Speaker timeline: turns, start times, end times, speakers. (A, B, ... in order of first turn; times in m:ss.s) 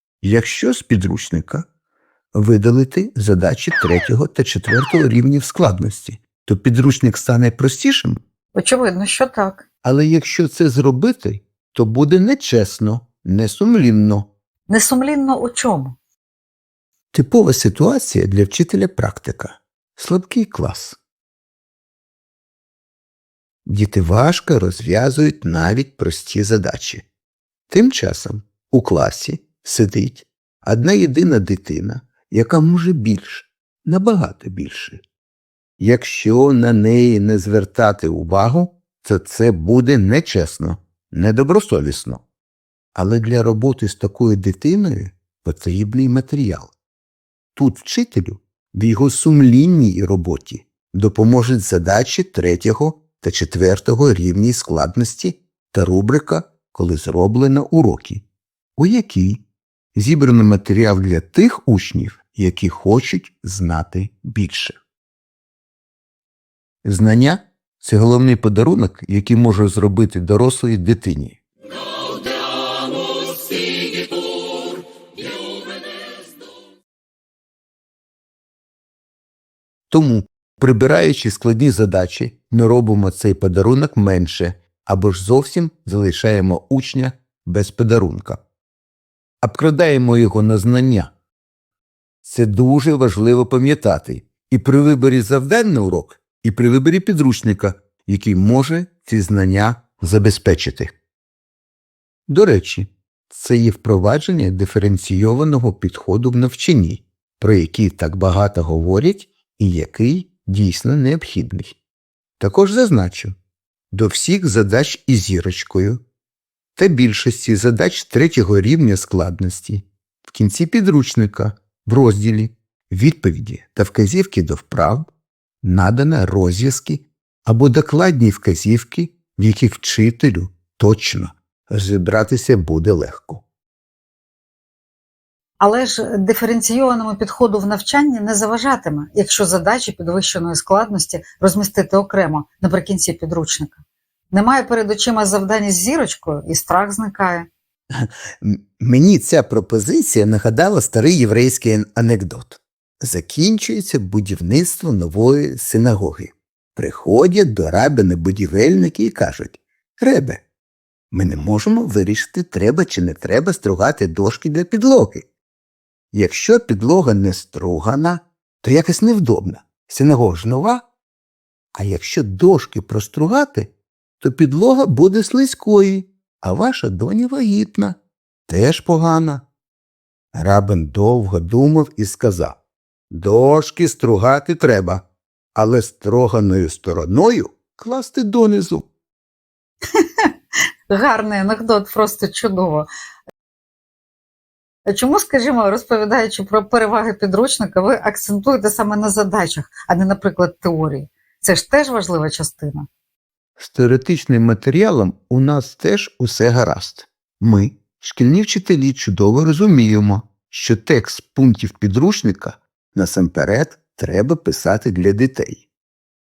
0:00.2-0:01.7 A
0:02.3-0:08.2 A
0:08.5-0:09.6 B
0:09.8-0:14.3 A
0:14.7-0:16.0 B
0:17.1-0:21.0 A
0:23.7-0:27.0 A
0:27.7-0:35.0 A
0:35.8-0:42.2 A
0:43.0-0:46.7 A
0:47.6-0:58.2 A
0:58.8-0:59.4 A
1:00.0-1:04.8 A
1:06.8-1:11.4 A
1:12.3-1:14.6 A
1:19.9-1:28.4 A
1:29.4-1:31.1 A
1:32.2-1:40.9 A
1:42.3-1:51.8 A
1:52.4-1:53.4 A
1:53.9-1:56.0 A
1:56.8-2:05.1 A
2:05.6-2:13.4 A
2:15.6-2:23.8 B
2:24.3-2:27.5 B
2:27.9-2:40.4 A
2:41.1-2:45.2 A
2:46.1-2:50.8 A
2:51.8-2:58.0 A
2:58.5-2:59.4 A
3:00.3-3:02.6 A
3:03.1-3:05.0 A
3:05.6-3:08.9 A
3:10.0-3:10.3 B
3:10.9-3:12.9 B
3:14.9-3:22.9 B
3:23.6-3:35.7 A